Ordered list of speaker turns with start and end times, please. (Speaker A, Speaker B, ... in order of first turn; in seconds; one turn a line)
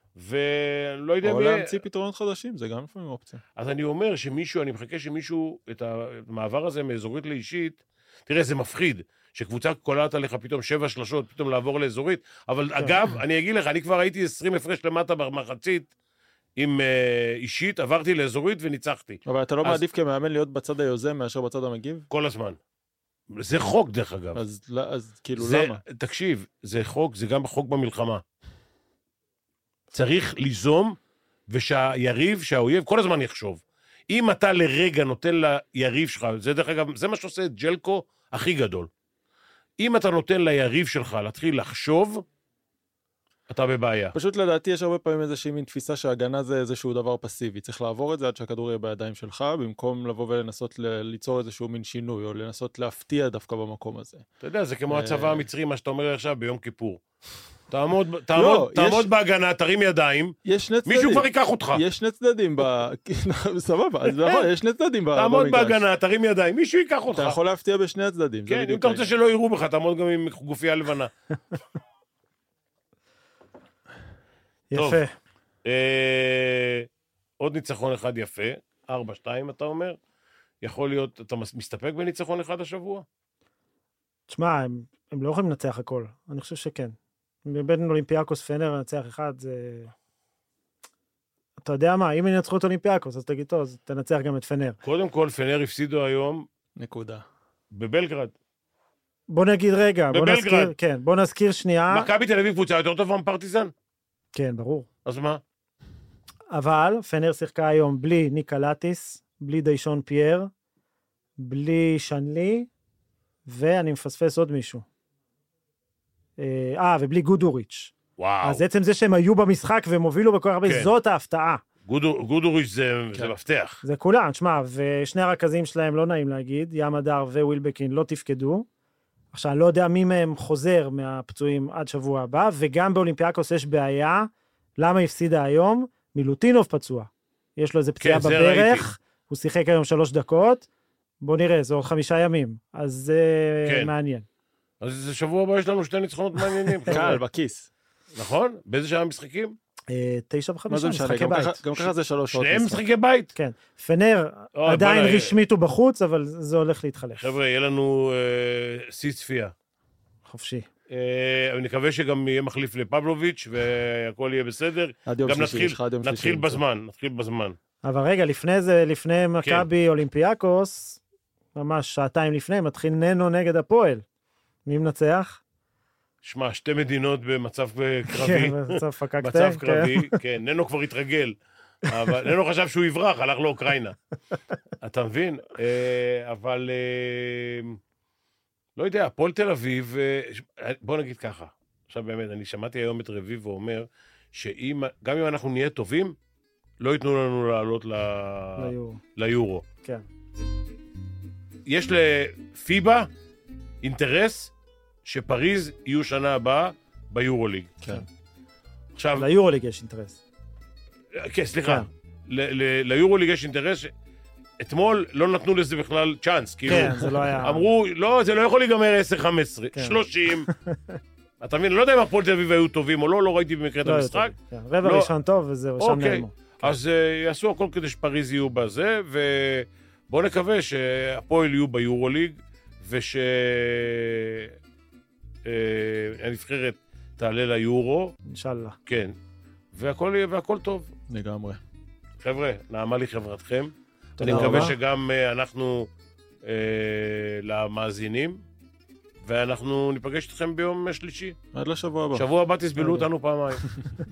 Speaker A: 0.1-1.8
Speaker B: 1.2-3.4
Speaker A: 3.6-15.9
Speaker A: 16.6-19.8
Speaker B: 19.3-22.1
Speaker A: 22.1-22.6
Speaker A: 23.4-24.4
Speaker B: 24.4-25.8
Speaker A: 25.4-28.2
Speaker A: 29.9-31.0
Speaker A: 31.5-38.9
Speaker A: 39.8-42.2
Speaker A: 43.5-44.1
Speaker B: 44.1-54.2
Speaker A: 54.4-57.0
Speaker B: 54.9-55.5
Speaker A: 57.7-61.8
Speaker B: 58.3-59.1
Speaker B: 60.5-65.8
Speaker A: 65.1-67.4
Speaker B: 67.1-69.1
Speaker A: 68.5-71.1
Speaker C: 74.7-75.1
Speaker A: 74.7-75.0
Speaker A: 75.7-76.9
Speaker A: 77.4-80.0
Speaker A: 80.6-83.1
Speaker C: 84.3-89.9
Speaker C: 91.6-94.8
Speaker A: 94.8-96.5
Speaker B: 96.8-97.2
Speaker A: 97.7-98.3
Speaker C: 99.3-102.1
Speaker A: 100.1-100.7
Speaker A: 101.9-103.7
Speaker C: 104.3-104.9
Speaker A: 105.0-105.4
Speaker C: 106.5-110.5
Speaker C: 111.4-112.7
Speaker C: 113.5-114.8
Speaker C: 116.4-121.6
Speaker A: 118.2-118.6
Speaker A: 120.7-120.9
Speaker A: 121.9-123.8
Speaker C: 123.8-128.7
Speaker C: 129.3-140.7
Speaker A: 138.0-138.9
Speaker C: 141.2-144.3
Speaker A: 143.7-143.9
Speaker A: 144.8-147.2
Speaker B: 146.9-147.7
Speaker C: 146.9-147.2
Speaker A: 148.1-149.6
Speaker C: 149.9-151.7
Speaker B: 150.7-152.8
Speaker A: 151.8-153.3
Speaker C: 153.3-157.3
Speaker A: 154.6-155.4
Speaker A: 157.2-159.5
Speaker C: 160.3-160.7
Speaker A: 160.9-167.6
Speaker B: 165.1-166.6
Speaker C: 167.8-171.0
Speaker C: 171.6-174.0
Speaker C: 174.7-175.4
Speaker A: 176.2-184.0
Speaker C: 178.1-180.2
Speaker A: 184.8-187.8
Speaker A: 188.8-196.2
Speaker A: 196.8-199.7
Speaker C: 198.6-199.0
Speaker A: 201.7-203.1
Speaker A: 203.8-204.5
Speaker A: 205.1-207.8
Speaker A: 208.9-209.3
Speaker C: 209.2-210.2
Speaker A: 211.1-213.9
Speaker A: 214.6-220.5
Speaker C: 216.7-217.7
Speaker B: 216.8-217.3
Speaker C: 219.7-221.0
Speaker A: 221.4-225.1
Speaker C: 223.8-226.7
Speaker A: 225.8-234.6
Speaker A: 235.4-238.2
Speaker C: 238.3-238.8
Speaker A: 238.9-239.2
Speaker A: 239.7-240.9
Speaker B: 241.1-241.6
Speaker A: 242.2-245.9
Speaker C: 244.2-244.7
Speaker B: 244.2-244.7
Speaker A: 246.4-248.4
Speaker A: 249.2-251.4
Speaker B: 251.5-252.3
Speaker A: 252.1-253.7
Speaker C: 252.8-253.1